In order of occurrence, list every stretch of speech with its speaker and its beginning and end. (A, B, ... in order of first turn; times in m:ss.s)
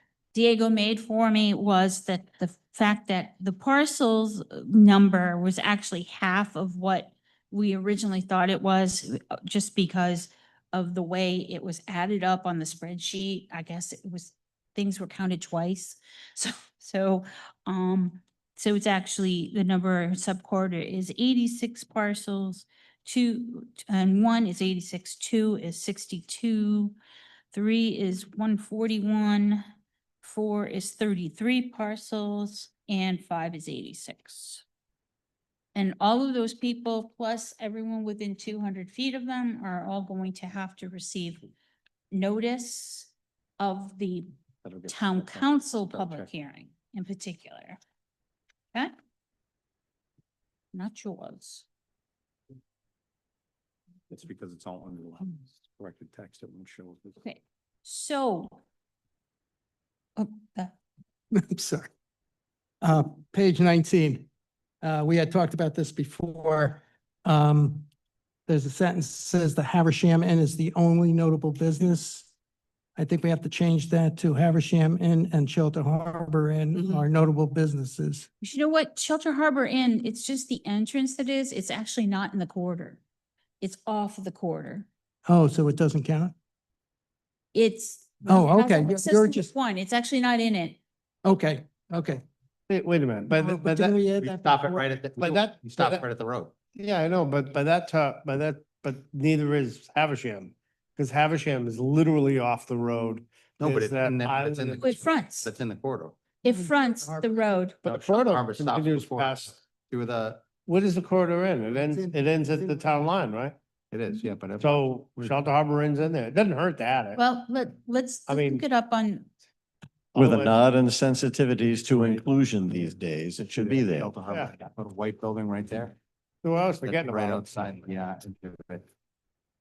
0:00.3-0:27.0 A
0:27.5-0:29.6 A
0:30.2-0:34.6 A
0:35.7-0:41.5 A
0:42.1-0:44.3 A
0:44.6-0:46.3 B
0:44.9-0:47.8 A
0:50.7-0:51.6 A
0:54.1-0:57.2 B
0:57.2-0:58.6 A
1:00.2-1:00.7 A
1:01.3-1:01.9 C
1:02.8-1:04.3 C
1:04.8-1:07.9 C
1:08.5-1:12.3 C
1:13.0-1:18.3 C
1:18.4-1:23.0 A
1:23.6-1:24.9 A
1:25.2-1:26.3 C
1:27.5-1:30.8 A
1:28.2-1:29.5 C
1:31.2-1:32.2 C
1:32.7-1:34.0 D
1:33.3-1:34.8 C
1:34.2-1:36.5 B
1:35.2-1:36.0 D
1:36.7-1:44.8 D
1:43.6-1:46.2 B
1:44.8-1:45.5 A
1:46.4-1:47.8 A
1:47.8-1:49.5 D
1:47.8-1:50.5 B
1:50.6-1:53.6 D
1:53.9-1:55.3 B
1:54.6-1:57.2 D
1:57.2-1:59.3 A
1:58.3-1:58.6 D
2:00.1-2:00.5 D
2:00.1-2:04.1 E
2:03.6-2:06.0 B
2:06.4-2:07.4 D
2:06.8-2:08.9 B